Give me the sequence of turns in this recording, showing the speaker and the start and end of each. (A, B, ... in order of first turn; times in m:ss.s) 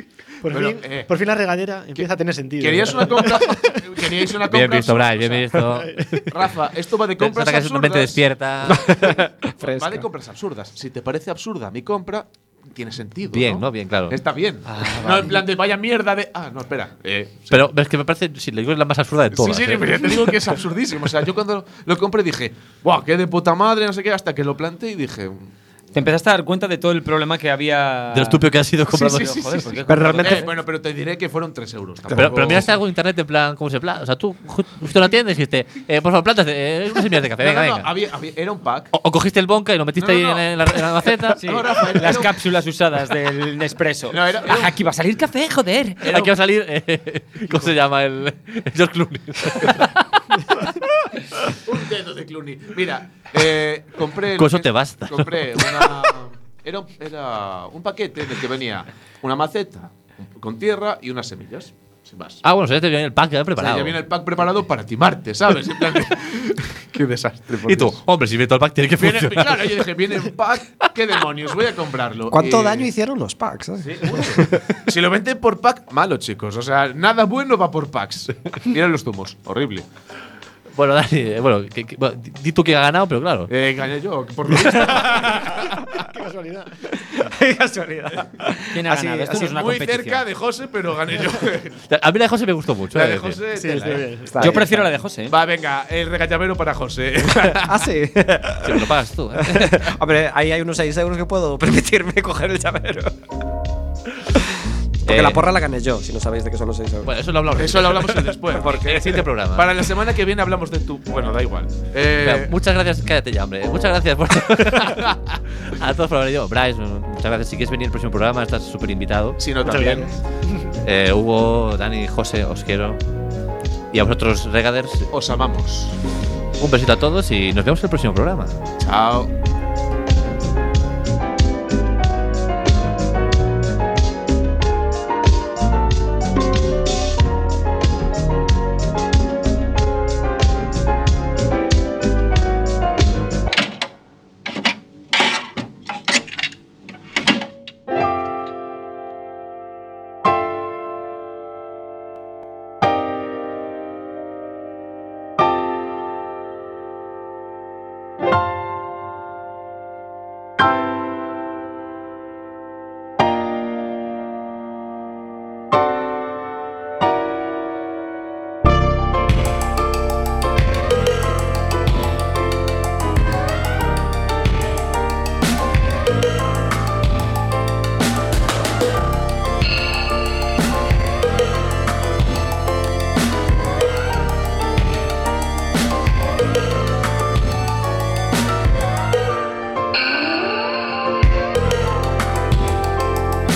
0:00.4-0:04.1 A
0:00.4-0:01.1 B
0:02.6-0:05.5 B
0:04.5-0:06.2 C
0:05.5-0:06.2 A
0:06.3-0:08.2 B
0:07.2-0:08.9 C
0:08.6-0:10.0 D
0:09.6-0:17.7 B
0:13.3-0:14.2 C
0:14.7-0:15.1 E
0:14.9-0:15.4 C
0:17.5-0:20.1 C
0:19.3-0:25.5 B
0:25.9-0:30.5 E
0:28.1-0:29.7 C
0:28.9-0:32.8 B
0:29.9-0:30.5 D
0:32.1-0:37.9 C
0:37.4-0:38.9 B
0:38.9-0:42.0 C
0:40.0-0:42.4 B
0:41.4-0:46.3 E
0:44.1-0:44.7 B
0:46.0-0:50.7 C
0:51.5-1:02.4 B
0:54.4-0:56.1 C
1:02.4-1:04.0 C
1:03.6-1:08.0 B
1:07.6-1:09.8 C
1:09.0-1:12.9 B
1:12.3-1:14.8 D
1:14.0-1:19.8 B
1:20.7-1:23.5 C
1:23.5-1:26.0 B
1:26.0-1:26.9 A
1:26.9-1:29.6 D
1:28.7-1:30.2 E
1:29.3-1:31.8 B
1:31.9-1:33.4 C
1:32.9-1:34.2 B
1:33.5-1:34.4 A
1:34.3-1:34.8 D
1:34.4-1:35.3 E
1:35.3-1:37.9 B
1:37.5-1:43.2 D
1:38.6-1:39.8 C
1:45.0-1:47.1 D
1:45.1-1:45.4 C
1:47.0-1:49.7 C
1:47.6-1:52.5 B
1:48.5-1:49.2 D
1:52.2-1:59.5 C
1:59.4-2:00.1 B
1:59.6-2:00.7 A
2:00.8-2:03.0 C
2:03.9-2:05.1 C
2:05.1-2:06.0 B
2:06.6-2:08.5 C
2:08.8-2:09.3 B